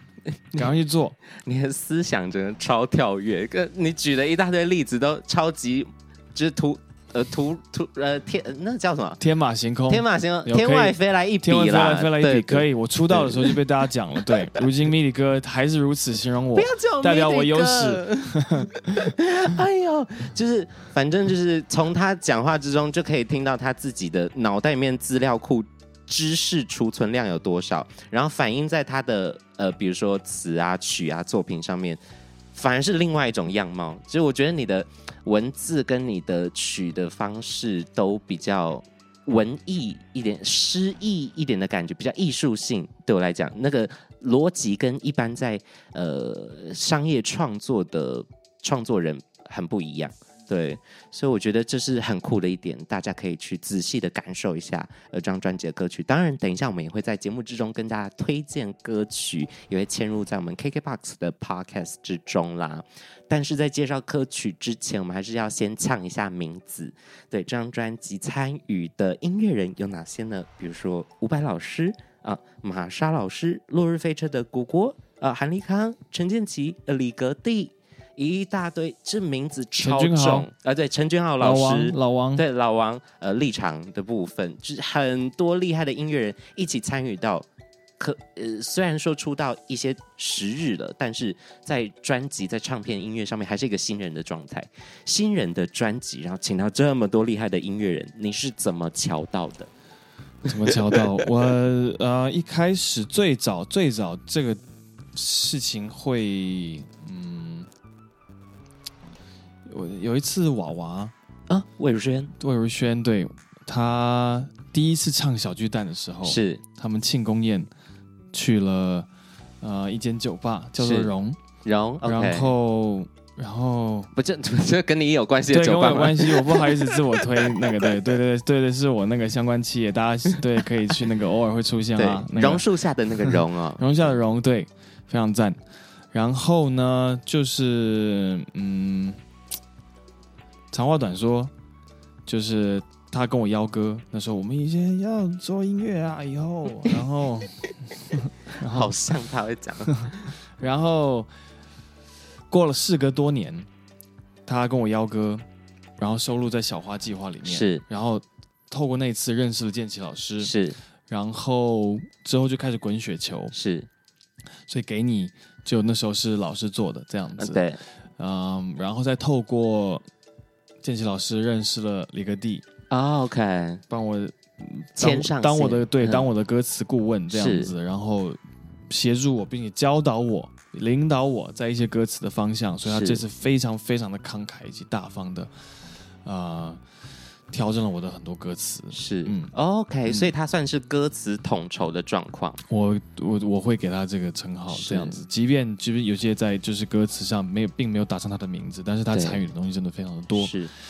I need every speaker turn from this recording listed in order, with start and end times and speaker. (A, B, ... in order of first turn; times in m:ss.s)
0:00.5-0:01.2 A
0:01.4-0:09.2 B
0:09.2-0:19.1 A
0:09.9-0:13.6 B
0:16.5-0:32.0 B
0:32.5-1:27.4 B
1:19.8-1:20.5 A
1:21.4-1:22.4 A
1:28.0-1:39.7 B
1:40.4-1:44.6 A
1:45.1-1:47.7 A
1:49.7-1:51.1 A
1:51.5-1:52.3 B
1:52.4-1:57.7 A
1:56.2-1:56.6 B
1:58.3-1:59.1 A
1:59.6-2:01.4 A
2:00.8-2:01.1 B
2:01.6-2:02.5 B
2:02.0-2:04.1 A
2:04.1-2:07.9 B
2:05.5-2:12.6 A
2:12.0-2:14.1 B
2:13.8-2:15.6 A
2:16.1-2:19.2 A
2:20.7-2:21.5 A
2:22.3-2:28.9 A
2:28.6-2:30.1 B
2:29.9-2:31.3 A
2:32.5-2:33.7 A
2:34.4-2:35.4 A
2:36.0-2:40.5 A
2:37.4-2:37.8 B
2:40.4-2:40.8 B
2:41.1-2:43.5 A
2:43.5-2:43.9 B
2:44.7-2:47.6 A
2:47.4-2:47.8 B
2:48.2-2:50.0 A
2:50.8-2:52.6 A
2:52.9-2:53.8 B
2:53.9-2:58.4 A
2:55.0-2:56.3 B
2:57.3-2:57.7 B
2:58.9-3:05.5 A
3:02.8-3:03.2 B
3:06.2-3:06.8 A
3:07.5-3:09.5 A
3:08.9-3:12.6 B
3:10.0-3:10.3 A
3:12.7-3:20.5 A
3:14.7-3:15.2 B
3:19.1-3:19.4 B
3:20.4-3:20.7 B